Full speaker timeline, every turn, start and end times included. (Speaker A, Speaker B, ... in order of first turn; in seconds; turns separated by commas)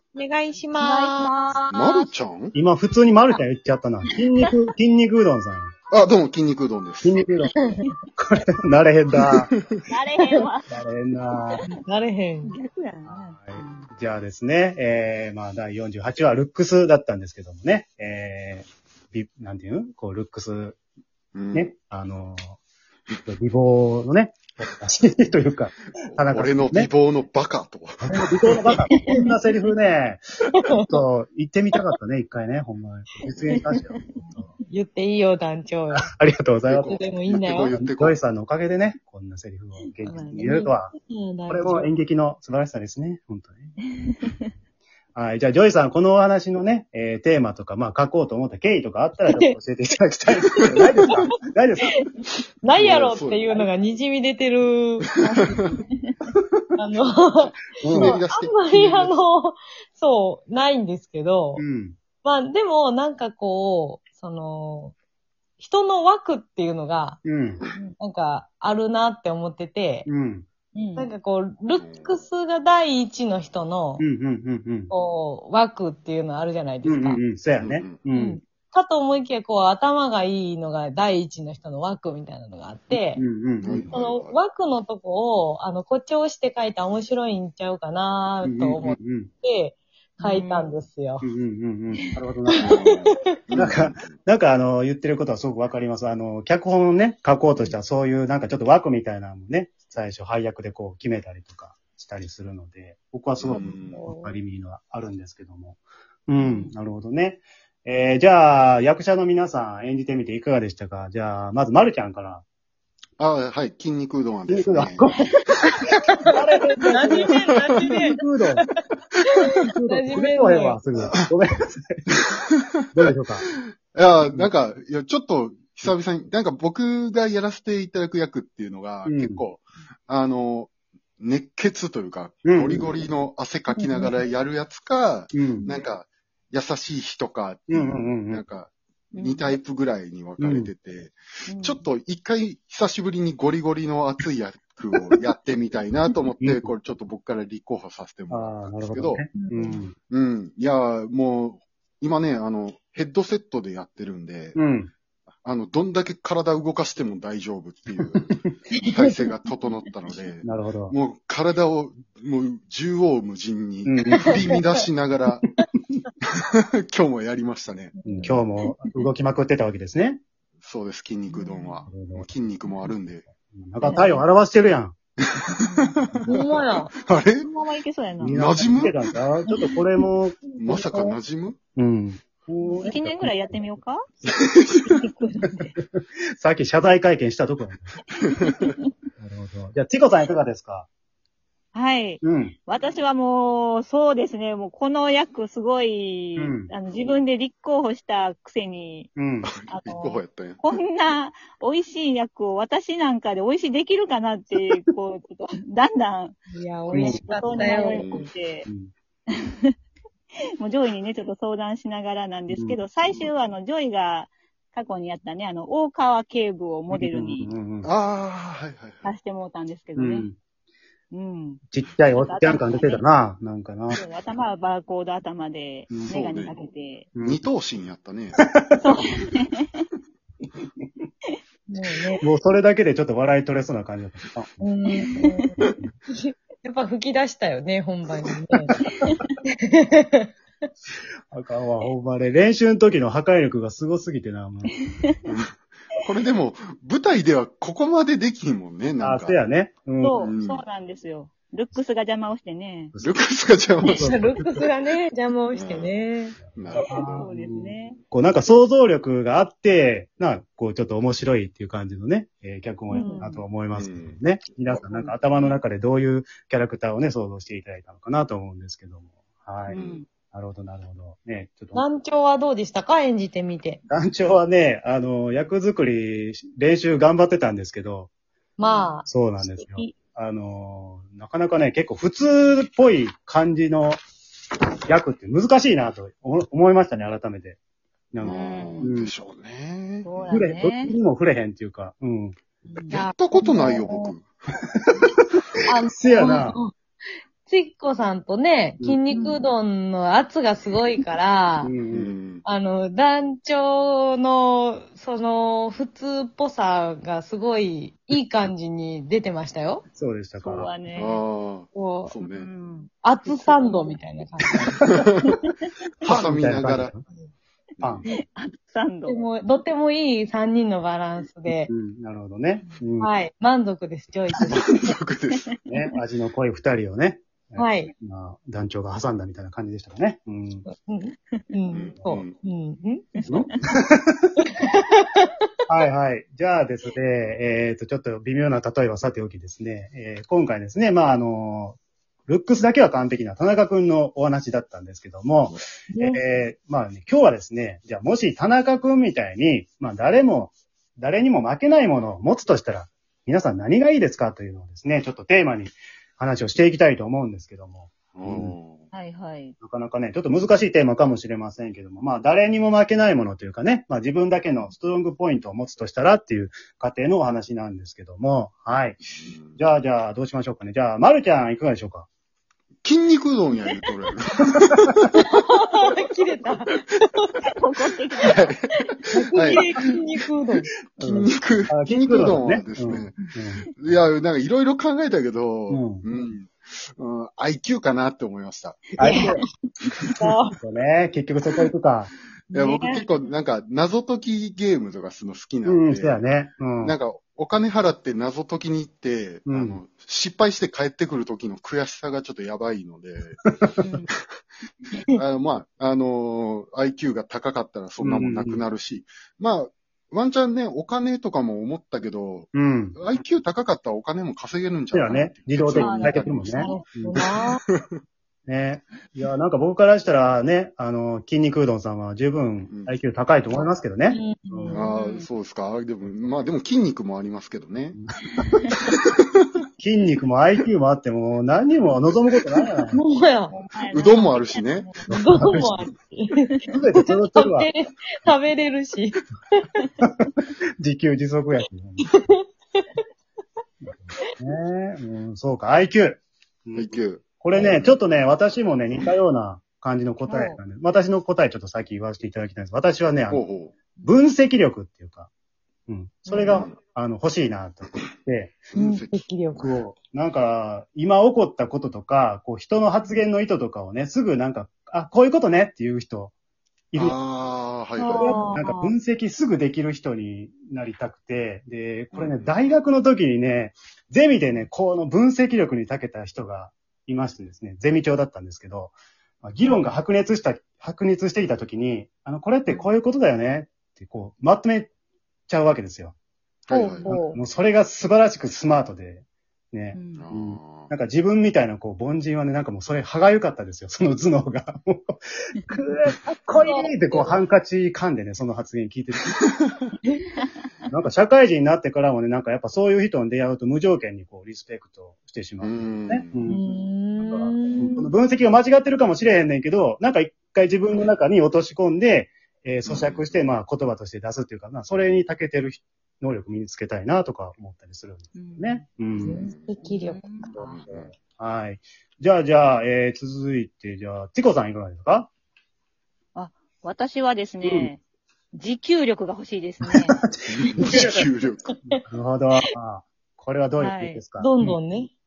Speaker A: 0.1-1.3, Speaker B: 0.8-2.0, Speaker C: 1.7-2.5, Speaker D: 2.5-5.7, Speaker C: 5.9-7.2, Speaker D: 7.0-7.5, Speaker A: 7.6-7.8, Speaker D: 8.2-9.5, Speaker C: 9.3-9.7, Speaker B: 9.9-10.7, Speaker D: 10.7-11.6, Speaker A: 11.6-12.5, Speaker B: 12.4-13.8, Speaker D: 13.1-20.8, Speaker C: 21.3-21.7, Speaker D: 21.5-22.6, Speaker D: 23.2-26.9, Speaker C: 26.1-28.5, Speaker D: 28.0-30.2, Speaker A: 28.5-29.3, Speaker B: 28.9-29.3, Speaker A: 30.5-30.9, Speaker D: 30.8-34.5, Speaker A: 33.2-33.5, Speaker B: 33.5-34.0, Speaker A: 34.2-36.1, Speaker D: 36.0-37.0, Speaker C: 36.7-38.2, Speaker A: 36.8-37.7, Speaker D: 37.7-40.9, Speaker B: 39.8-40.5, Speaker A: 40.0-41.9, Speaker D: 41.5-43.7, Speaker B: 44.0-44.5, Speaker D: 45.1-52.0, Speaker A: 49.2-49.5, Speaker A: 50.5-51.1, Speaker A: 51.8-52.1, Speaker A: 52.6-55.8, Speaker C: 52.7-53.5, Speaker C: 55.3-55.6, Speaker B: 55.9-56.2, Speaker A: 56.8-61.6, Speaker D: 57.8-58.2, Speaker C: 57.9-59.2, Speaker D: 61.5-62.0, Speaker A: 62.2-64.9, Speaker A: 65.6-67.2, Speaker D: 67.2-67.6, Speaker A: 68.0-70.1, Speaker D: 70.0-70.5, Speaker B: 70.7-71.1, Speaker A: 71.0-74.0, Speaker C: 71.8-72.2, Speaker D: 74.0-74.9, Speaker A: 74.9-77.2, Speaker D: 76.8-78.4, Speaker C: 77.6-78.0, Speaker A: 78.1-83.2, Speaker D: 83.1-83.9, Speaker C: 83.6-84.4, Speaker A: 83.9-91.2, Speaker D: 88.4-89.3, Speaker B: 90.2-90.7, Speaker D: 91.2-92.7, Speaker A: 92.5-93.2, Speaker C: 92.6-94.2, Speaker D: 93.5-112.4, Speaker C: 103.4-104.1, Speaker A: 103.6-104.4, Speaker A: 106.4-106.7, Speaker C: 113.2-115.1, Speaker D: 114.5-115.3, Speaker A: 115.4-120.8, Speaker D: 115.9-118.6, Speaker C: 117.2-117.8, Speaker D: 119.7-122.2, Speaker D: 122.9-123.4, Speaker C: 123.9-149.2, Speaker D: 124.2-124.5, Speaker D: 129.0-129.4, Speaker D: 132.4-132.9, Speaker A: 133.7-134.1, Speaker D: 135.3-135.7, Speaker D: 137.7-138.4, Speaker B: 139.2-139.5, Speaker D: 140.4-140.7, Speaker B: 141.5-141.8, Speaker D: 146.4-146.7, Speaker D: 148.3-149.9, Speaker A: 149.4-149.8, Speaker C: 150.1-154.6, Speaker D: 154.5-154.9, Speaker C: 155.4-158.3, Speaker D: 158.1-158.5, Speaker A: 158.8-159.1, Speaker C: 158.8-165.4, Speaker D: 160.4-160.9, Speaker D: 163.8-164.3, Speaker A: 164.2-164.6, Speaker C: 166.4-167.9, Speaker A: 168.0-168.9, Speaker D: 168.1-170.2, Speaker C: 170.6-173.2, Speaker B: 171.4-171.8, Speaker D: 171.9-172.4, Speaker D: 173.2-174.9, Speaker A: 173.8-174.2, Speaker B: 175.6-176.0, Speaker C: 176.0-177.5, Speaker A: 176.2-176.9, Speaker B: 177.4-178.4, Speaker D: 178.2-181.2, Speaker C: 178.3-178.9, Speaker C: 180.6-181.6, Speaker D: 181.8-183.8, Speaker B: 182.7-184.0, Speaker C: 184.2-184.9, Speaker B: 184.8-185.7, Speaker D: 185.8-187.9, Speaker B: 188.2-188.9, Speaker C: 188.4-188.7, Speaker D: 189.2-190.9, Speaker B: 191.7-199.1, Speaker D: 192.2-192.5, Speaker D: 196.4-196.7, Speaker D: 199.2-199.5, Speaker C: 199.4-200.8, Speaker B: 199.7-208.7, Speaker A: 206.5-208.2, Speaker D: 206.9-207.2, Speaker C: 207.9-208.3, Speaker D: 208.7-208.9, Speaker B: 210.6-217.5, Speaker D: 212.5-212.8, Speaker D: 216.9-217.9, Speaker C: 217.8-219.1, Speaker B: 219.0-220.3, Speaker D: 219.9-220.4, Speaker B: 221.1-223.0, Speaker D: 221.7-224.0, Speaker B: 223.9-227.1, Speaker C: 226.1-226.6, Speaker D: 227.1-227.4, Speaker C: 227.2-228.4, Speaker D: 228.4-228.8, Speaker B: 228.7-229.8, Speaker A: 231.7-232.2, Speaker D: 232.2-234.6, Speaker A: 234.6-238.8, Speaker D: 238.8-239.2, Speaker B: 238.9-239.3, Speaker A: 239.4-240.3, Speaker D: 241.3-244.8, Speaker C: 245.2-249.4, Speaker D: 249.0-250.2, Speaker B: 250.0-252.9, Speaker C: 250.1-250.6, Speaker C: 253.0-254.1, Speaker A: 253.8-256.4, Speaker D: 253.9-254.6, Speaker C: 255.5-255.9, Speaker C: 256.4-257.2, Speaker D: 256.5-271.8, Speaker B: 256.7-258.0, Speaker B: 262.9-263.5, Speaker A: 262.9-263.3, Speaker C: 263.7-265.0, Speaker C: 269.7-270.0, Speaker B: 269.7-270.1, Speaker A: 271.7-273.8, Speaker D: 273.9-278.1, Speaker A: 278.6-279.8, Speaker B: 278.6-278.9, Speaker D: 279.0-284.0, Speaker B: 282.3-282.5, Speaker D: 284.9-287.6, Speaker D: 288.1-289.1, Speaker C: 288.2-290.4, Speaker B: 288.2-288.9, Speaker B: 290.0-290.9, Speaker D: 290.3-292.4, Speaker B: 292.7-293.0, Speaker C: 292.9-294.2, Speaker A: 292.9-294.1, Speaker D: 294.6-295.4, Speaker A: 295.6-296.7, Speaker D: 295.9-296.6, Speaker A: 297.4-301.7, Speaker B: 299.1-299.4, Speaker D: 301.6-302.2, Speaker C: 301.9-302.4, Speaker A: 302.4-309.8, Speaker D: 309.9-310.7, Speaker B: 310.4-311.2, Speaker C: 310.9-312.5, Speaker A: 311.7-312.1, Speaker B: 312.3-313.9, Speaker A: 313.0-314.8, Speaker C: 314.8-315.4, Speaker B: 315.2-315.5, Speaker C: 316.0-316.9, Speaker D: 316.1-317.0, Speaker C: 317.8-318.0, Speaker B: 318.1-319.2, Speaker A: 319.1-321.7, Speaker D: 321.7-323.1, Speaker A: 323.0-324.6, Speaker C: 324.4-325.5, Speaker D: 325.6-330.6, Speaker A: 327.6-327.9, Speaker A: 330.6-333.3, Speaker C: 331.7-332.3, Speaker D: 333.3-334.3, Speaker A: 334.4-335.5, Speaker D: 335.7-358.6, Speaker A: 345.9-346.2, Speaker C: 358.1-358.9, Speaker B: 358.9-359.5, Speaker D: 359.6-369.0, Speaker C: 369.2-369.6, Speaker D: 369.6-372.1, Speaker C: 372.8-375.2, Speaker A: 375.2-377.3, Speaker B: 377.4-378.5, Speaker C: 378.2-378.6, Speaker A: 379.1-380.7, Speaker C: 379.3-379.7, Speaker D: 380.9-384.0, Speaker C: 381.0-383.1, Speaker C: 383.8-388.9, Speaker D: 385.7-386.0, Speaker D: 389.0-389.4, Speaker A: 389.0-389.3, Speaker B: 389.0-389.3, Speaker A: 390.1-390.6, Speaker D: 390.6-392.1, Speaker C: 392.5-396.2, Speaker A: 392.5-393.0, Speaker D: 395.6-396.9, Speaker C: 396.8-403.4, Speaker D: 399.5-399.8, Speaker B: 403.8-404.1, Speaker C: 405.1-416.6, Speaker D: 408.0-408.6, Speaker D: 412.5-413.0, Speaker D: 414.9-417.2, Speaker B: 415.7-416.7, Speaker A: 416.6-417.6, Speaker C: 417.3-417.9, Speaker D: 418.5-424.8, Speaker C: 422.7-423.0, Speaker A: 424.1-424.8, Speaker B: 424.7-425.3, Speaker C: 424.7-428.0, Speaker D: 426.0-426.3, Speaker D: 427.9-428.6, Speaker D: 429.8-433.0, Speaker A: 432.8-433.5, Speaker B: 433.5-435.6, Speaker C: 433.9-434.9, Speaker D: 435.1-435.8, Speaker A: 435.1-439.6, Speaker D: 436.7-437.7, Speaker D: 440.0-442.1, Speaker A: 442.0-443.0, Speaker D: 443.8-453.4, Speaker C: 446.7-448.0, Speaker B: 450.3-450.6, Speaker C: 453.3-453.7, Speaker D: 454.0-455.3, Speaker D: 455.9-458.7, Speaker A: 456.3-456.6, Speaker C: 456.5-456.8, Speaker C: 458.7-459.2, Speaker A: 458.7-459.7, Speaker D: 459.6-466.3, Speaker C: 466.9-468.3, Speaker B: 468.0-468.4, Speaker D: 468.1-484.9, Speaker A: 468.1-468.9, Speaker C: 472.1-472.6, Speaker B: 482.7-482.9, Speaker D: 485.5-486.1, Speaker C: 486.7-487.1, Speaker A: 486.7-487.4, Speaker D: 487.1-499.4, Speaker B: 489.9-490.2, Speaker C: 490.1-490.9, Speaker A: 496.5-497.4, Speaker D: 500.9-519.5, Speaker C: 505.6-506.5, Speaker A: 506.4-508.1, Speaker C: 512.9-513.4, Speaker B: 518.3-518.8, Speaker A: 519.2-520.4, Speaker C: 519.3-519.7, Speaker B: 519.9-520.8, Speaker D: 520.5-525.3, Speaker C: 520.6-521.1, Speaker B: 526.3-528.0, Speaker D: 527.6-527.9, Speaker B: 528.5-530.2, Speaker D: 529.8-531.3, Speaker C: 530.5-531.7, Speaker D: 531.9-534.8, Speaker B: 533.8-534.2, Speaker A: 534.4-535.1